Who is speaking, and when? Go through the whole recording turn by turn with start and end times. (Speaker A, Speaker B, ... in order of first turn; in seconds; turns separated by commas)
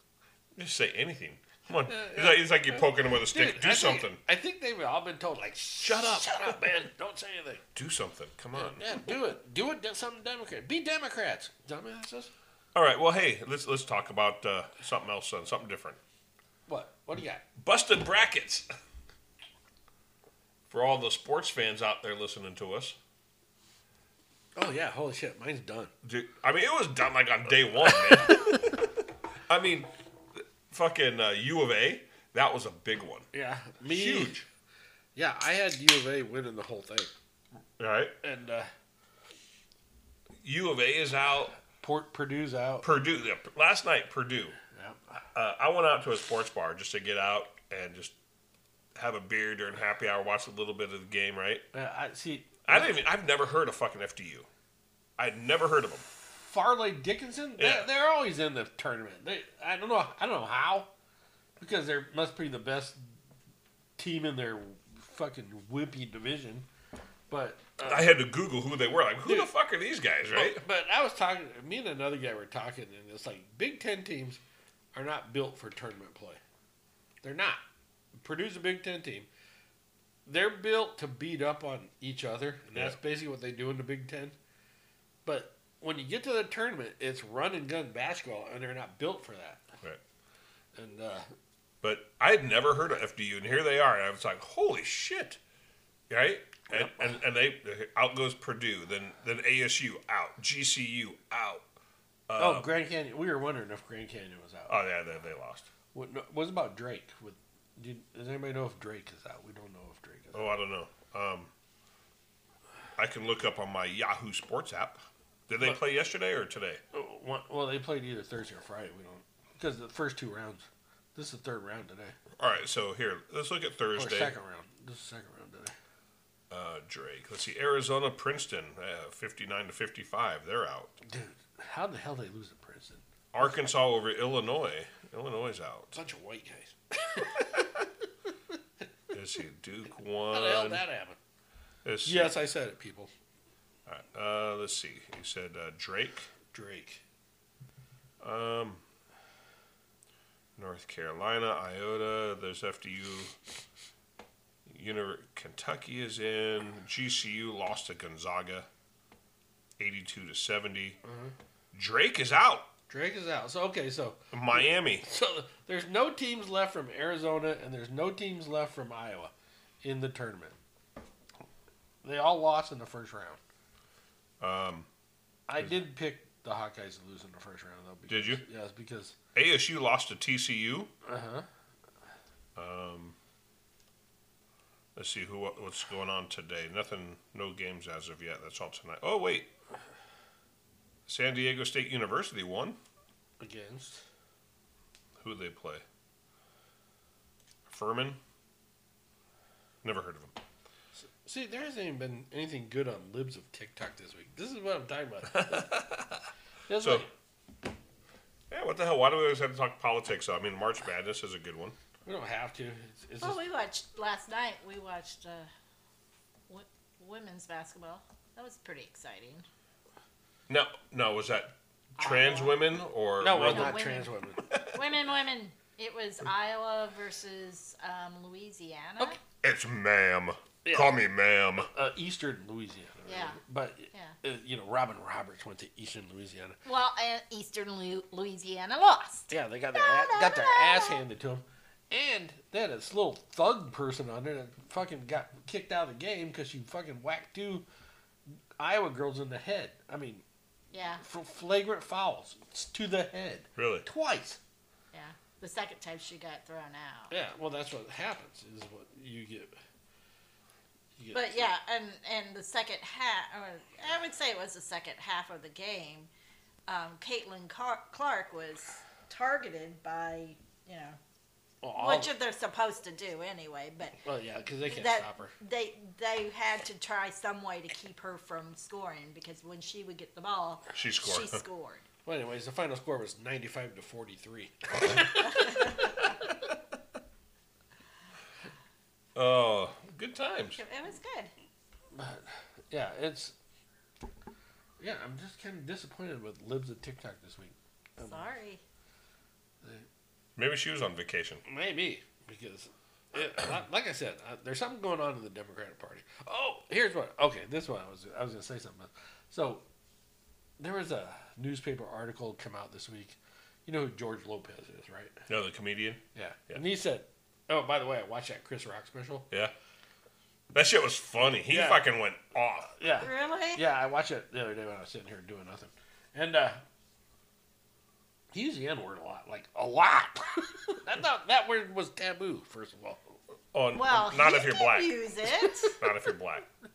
Speaker A: 0.6-4.2, Speaker B: 1.9-7.6, Speaker A: 5.8-6.7, Speaker A: 7.7-9.0, Speaker B: 8.6-12.3, Speaker A: 12.7-16.0, Speaker B: 16.7-17.4, Speaker A: 17.6-18.7, Speaker A: 20.7-23.0, Speaker B: 24.6-25.9, Speaker A: 26.0-28.8, Speaker B: 28.1-28.5, Speaker A: 29.5-33.3, Speaker B: 33.3-34.4, Speaker A: 33.8-34.5, Speaker B: 35.2-37.1, Speaker A: 37.8-38.1, Speaker B: 38.2-38.7, Speaker A: 40.4-41.6, Speaker B: 41.8-42.9, Speaker A: 42.8-44.6, Speaker B: 44.8-45.2, Speaker A: 45.3-48.1, Speaker A: 49.0-51.6, Speaker B: 51.7-53.0, Speaker A: 52.7-54.5, Speaker A: 55.2-56.0, Speaker B: 56.3-60.9, Speaker A: 57.6-57.9, Speaker B: 61.6-63.0, Speaker B: 64.0-66.7, Speaker B: 67.3-68.1, Speaker A: 67.8-70.6, Speaker B: 69.2-69.5, Speaker B: 70.3-74.4, Speaker B: 74.9-76.4, Speaker B: 77.2-77.6, Speaker B: 78.2-79.3, Speaker B: 80.3-84.4, Speaker B: 85.2-89.6, Speaker B: 90.8-91.3, Speaker A: 91.8-95.4, Speaker A: 96.1-101.7, Speaker B: 96.7-97.0, Speaker A: 102.3-102.7, Speaker B: 102.4-104.8, Speaker A: 104.7-105.7, Speaker B: 105.9-110.5, Speaker A: 110.3-111.5, Speaker A: 113.0-116.8, Speaker B: 116.9-122.2, Speaker A: 122.4-124.3, Speaker B: 124.0-125.8, Speaker A: 126.5-131.0, Speaker B: 131.1-133.0, Speaker A: 133.3-136.0, Speaker B: 135.9-137.8, Speaker A: 139.1-140.8, Speaker B: 140.3-141.2, Speaker A: 141.8-142.3, Speaker B: 142.1-143.1, Speaker A: 143.9-146.3, Speaker B: 146.5-147.0, Speaker A: 148.2-148.8, Speaker A: 150.6-153.3, Speaker A: 154.7-158.7, Speaker A: 159.8-161.0, Speaker B: 161.0-161.3, Speaker A: 161.7-162.7, Speaker B: 162.9-170.6, Speaker A: 164.3-165.1, Speaker B: 172.0-173.4, Speaker A: 174.4-174.9, Speaker B: 175.5-179.2, Speaker A: 178.1-178.4, Speaker A: 179.3-180.9, Speaker B: 181.1-181.5, Speaker A: 182.6-183.2, Speaker A: 184.9-189.5, Speaker A: 191.1-192.8, Speaker B: 193.4-194.0, Speaker A: 195.2-195.8, Speaker A: 197.7-198.2, Speaker A: 199.8-200.3, Speaker B: 201.0-205.8, Speaker A: 205.3-206.1, Speaker B: 206.7-207.1, Speaker A: 206.7-207.1, Speaker A: 208.5-211.8, Speaker B: 212.1-213.4, Speaker C: 213.2-215.5, Speaker C: 216.5-219.5, Speaker A: 220.5-223.8, Speaker C: 222.0-222.6, Speaker B: 223.2-224.5, Speaker C: 223.3-229.2, Speaker A: 229.4-231.7, Speaker B: 230.7-231.0, Speaker B: 231.6-236.6, Speaker C: 233.1-233.4, Speaker C: 236.6-241.0, Speaker B: 239.3-247.7, Speaker B: 248.3-250.2, Speaker C: 250.7-251.0, Speaker B: 251.0-254.4, Speaker A: 253.6-253.9, Speaker C: 254.9-257.1, Speaker B: 257.1-259.6, Speaker B: 261.0-261.5, Speaker C: 261.1-266.1, Speaker C: 266.7-271.0, Speaker B: 271.6-272.1, Speaker C: 271.7-274.0, Speaker B: 274.1-275.3, Speaker C: 274.7-281.9, Speaker A: 280.7-281.4, Speaker B: 282.1-285.5, Speaker C: 285.3-285.7, Speaker A: 289.1-290.6, Speaker C: 290.5-291.3, Speaker B: 291.9-293.4, Speaker B: 294.8-298.3, Speaker C: 298.0-298.6, Speaker A: 300.4-301.4, Speaker B: 301.5-309.6, Speaker B: 310.6-315.2, Speaker A: 315.3-316.6, Speaker B: 316.1-319.3, Speaker A: 320.5-322.7, Speaker B: 321.5-321.8, Speaker B: 322.8-326.6, Speaker C: 323.0-323.6, Speaker B: 328.3-333.2, Speaker A: 333.5-335.2, Speaker C: 333.7-335.8, Speaker A: 335.8-336.5